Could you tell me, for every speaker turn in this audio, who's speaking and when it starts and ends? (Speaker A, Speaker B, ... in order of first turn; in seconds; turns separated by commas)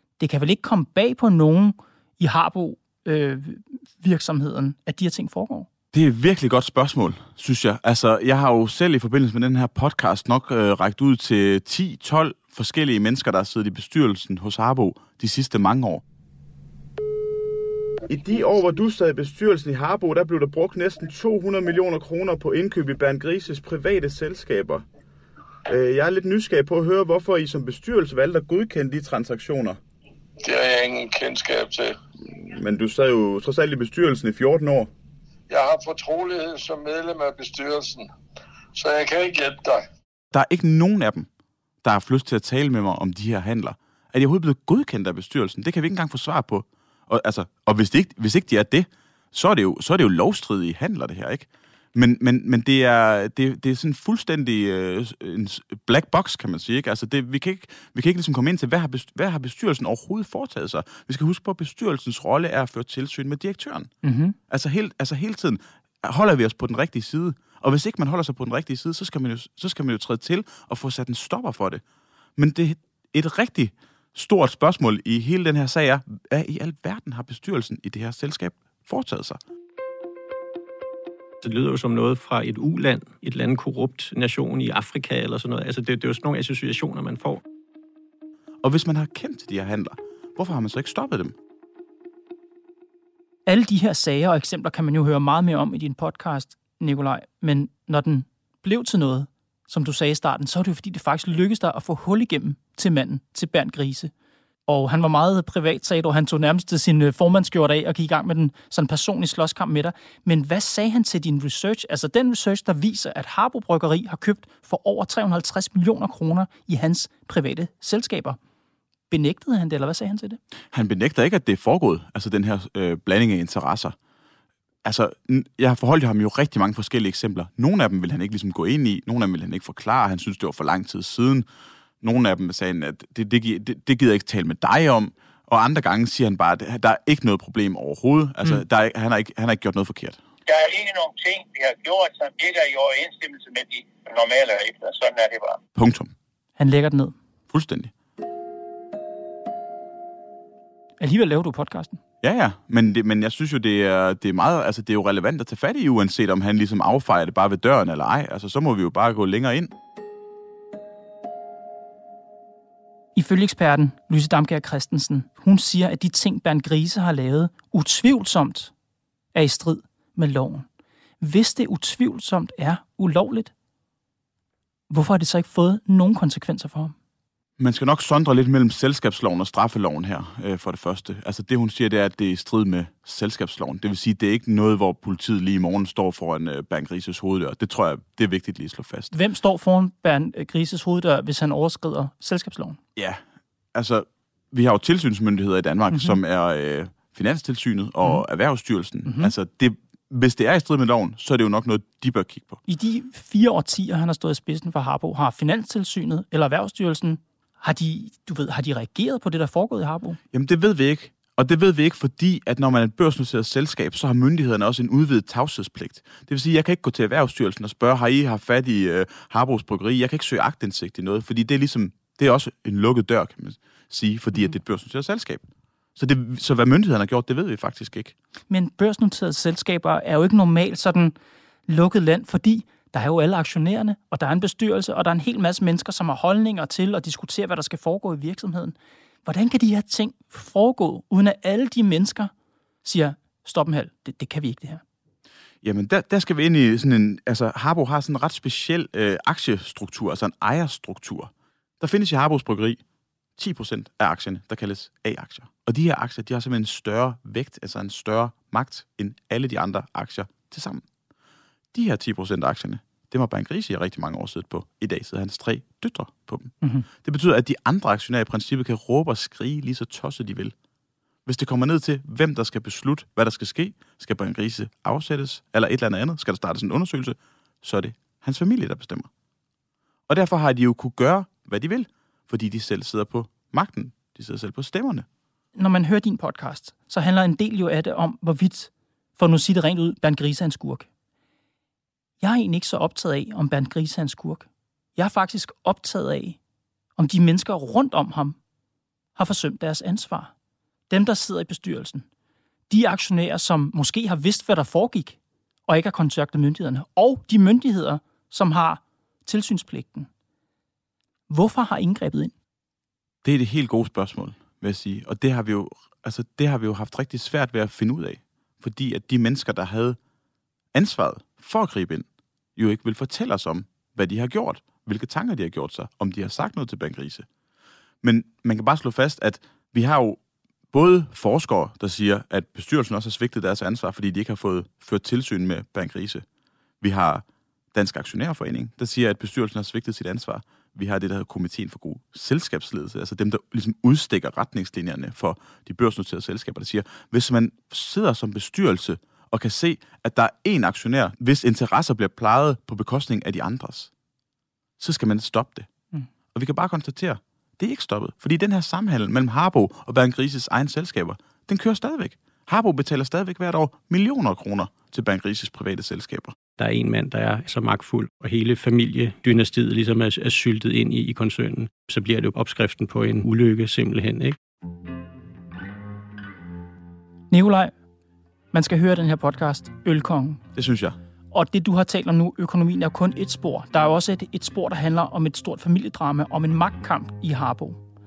Speaker A: 0.2-5.7, Speaker B: 5.9-16.0, Speaker B: 18.1-24.8, Speaker B: 25.7-29.8, Speaker C: 30.4-31.9, Speaker B: 32.3-34.9, Speaker C: 35.5-38.1, Speaker C: 38.8-39.8, Speaker B: 40.3-41.3, Speaker B: 41.8-63.9, Speaker A: 64.0-64.4, Speaker B: 64.5-71.8, Speaker B: 72.4-79.4, Speaker D: 81.4-87.4, Speaker B: 88.6-91.3, Speaker A: 93.5-104.1, Speaker A: 104.7-118.4, Speaker A: 119.1-120.4, Speaker B: 120.7-124.0, Speaker B: 124.8-131.4, Speaker B: 132.0-140.2, Speaker E: 140.5-145.6, Speaker B: 145.8-146.1, Speaker A: 146.6-147.2, Speaker B: 147.5-147.9, Speaker A: 151.0-152.0, Speaker B: 152.2-159.7, Speaker A: 163.2-168.7, Speaker A: 169.3-170.7, Speaker A: 171.2-173.5, Speaker A: 174.9-176.9, Speaker B: 177.6-189.1, Speaker A: 189.1-192.8, Speaker B: 193.8-202.6, Speaker A: 195.9-196.2, Speaker A: 199.1-199.3, Speaker A: 202.7-210.2, Speaker B: 210.3-225.5, Speaker B: 226.0-228.2, Speaker A: 228.5-231.1, Speaker A: 231.7-242.3, Speaker A: 242.8-244.8, Speaker B: 245.6-252.8, Speaker B: 253.4-260.8, Speaker B: 261.7-270.5, Speaker B: 271.3-279.1, Speaker B: 280.1-285.1, Speaker A: 285.6-290.9, Speaker A: 292.2-296.4, Speaker A: 297.0-298.4, Speaker A: 299.2-300.3, Speaker A: 300.9-302.1, Speaker A: 302.7-310.1, Speaker A: 311.3-312.3, Speaker B: 313.2-320.0, Speaker B: 320.7-327.3, Speaker B: 328.0-330.2, Speaker B: 330.7-336.2, Speaker B: 336.8-337.2, Speaker B: 337.8-353.9, Speaker B: 354.8-355.7, Speaker B: 356.3-366.4, Speaker D: 366.6-374.4, Speaker A: 377.3-377.7, Speaker A: 378.5-380.4, Speaker B: 380.6-381.0, Speaker A: 381.3-387.8